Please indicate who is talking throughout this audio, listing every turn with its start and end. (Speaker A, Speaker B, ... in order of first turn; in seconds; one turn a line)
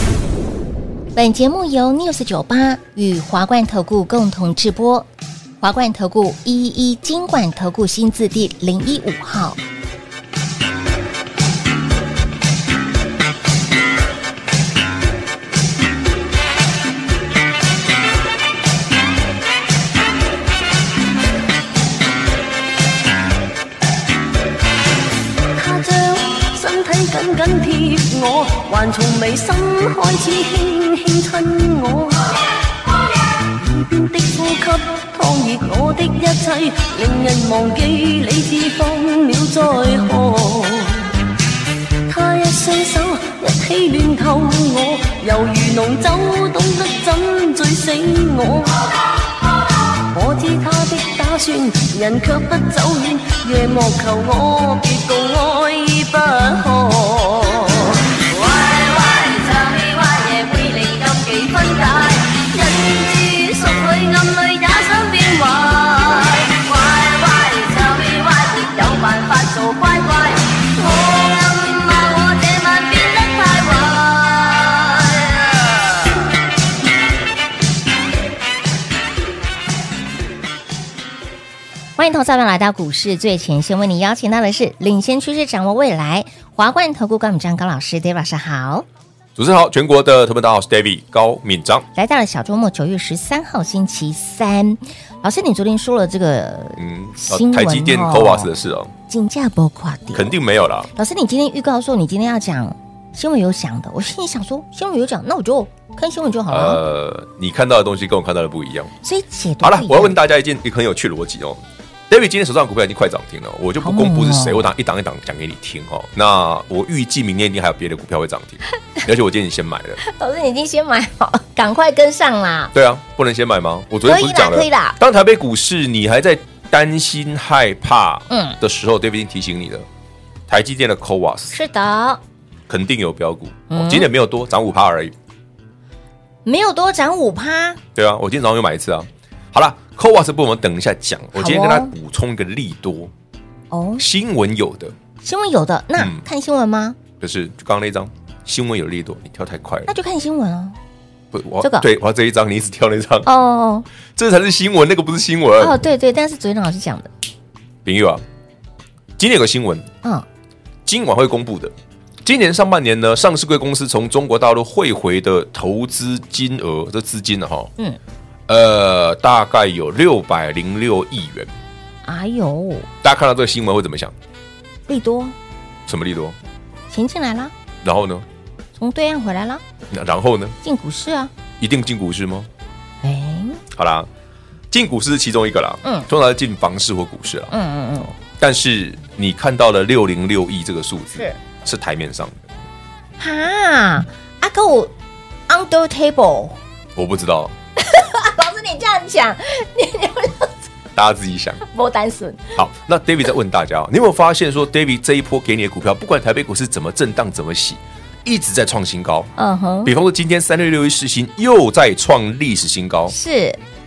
Speaker A: 1.1-5.1
Speaker A: 5.6-9.6
Speaker B: 25.5-32.4
Speaker B: 33.7-41.1
Speaker B: 42.0-48.8
Speaker B: 50.1-75.7
Speaker A: 82.0-88.8
Speaker C: 89.3-91.8
Speaker A: 91.9-98.5
Speaker C: 96.8-98.9
Speaker A: 99.1-100.4
Speaker C: 100.1-100.9
Speaker A: 100.9-106.8
Speaker C: 106.5-108.9
Speaker A: 109.0-110.2
Speaker C: 109.6-120.0
Speaker A: 113.8-114.7
Speaker A: 120.0-122.7
Speaker C: 122.7-129.8
Speaker A: 124.0-125.0
Speaker A: 128.3-128.6
Speaker C: 130.5-131.6
Speaker A: 131.5-132.2
Speaker C: 132.7-135.1
Speaker A: 133.7-134.1
Speaker A: 136.4-137.8
Speaker C: 137.9-143.1
Speaker A: 141.3-141.9
Speaker A: 143.7-144.0
Speaker C: 144.0-144.9
Speaker A: 145.2-147.0
Speaker C: 145.9-146.2
Speaker C: 147.2-149.9
Speaker A: 149.9-150.8
Speaker C: 151.3-153.3
Speaker A: 151.6-151.9
Speaker A: 153.2-153.8
Speaker C: 154.2-155.8
Speaker A: 155.6-157.1
Speaker C: 157.8-158.2
Speaker C: 159.2-159.9
Speaker C: 160.8-161.7
Speaker C: 162.2-167.7
Speaker C: 168.5-171.5
Speaker A: 172.0-172.9
Speaker C: 173.0-174.1
Speaker A: 174.9-175.3
Speaker C: 175.9-176.3
Speaker A: 176.9-177.5
Speaker C: 177.8-178.2
Speaker A: 178.8-179.6
Speaker C: 179.9-180.6
Speaker A: 180.6-181.3
Speaker C: 181.6-182.5
Speaker A: 183.0-183.6
Speaker C: 183.7-184.1
Speaker C: 184.7-187.5
Speaker A: 187.5-188.1
Speaker C: 188.2-192.5
Speaker A: 193.2-194.9
Speaker A: 195.5-196.6
Speaker C: 196.9-197.5
Speaker A: 197.8-200.5
Speaker C: 200.9-201.6
Speaker A: 201.7-202.6
Speaker C: 202.6-209.3
Speaker A: 209.4-209.9
Speaker C: 209.8-213.1
Speaker A: 213.1-213.6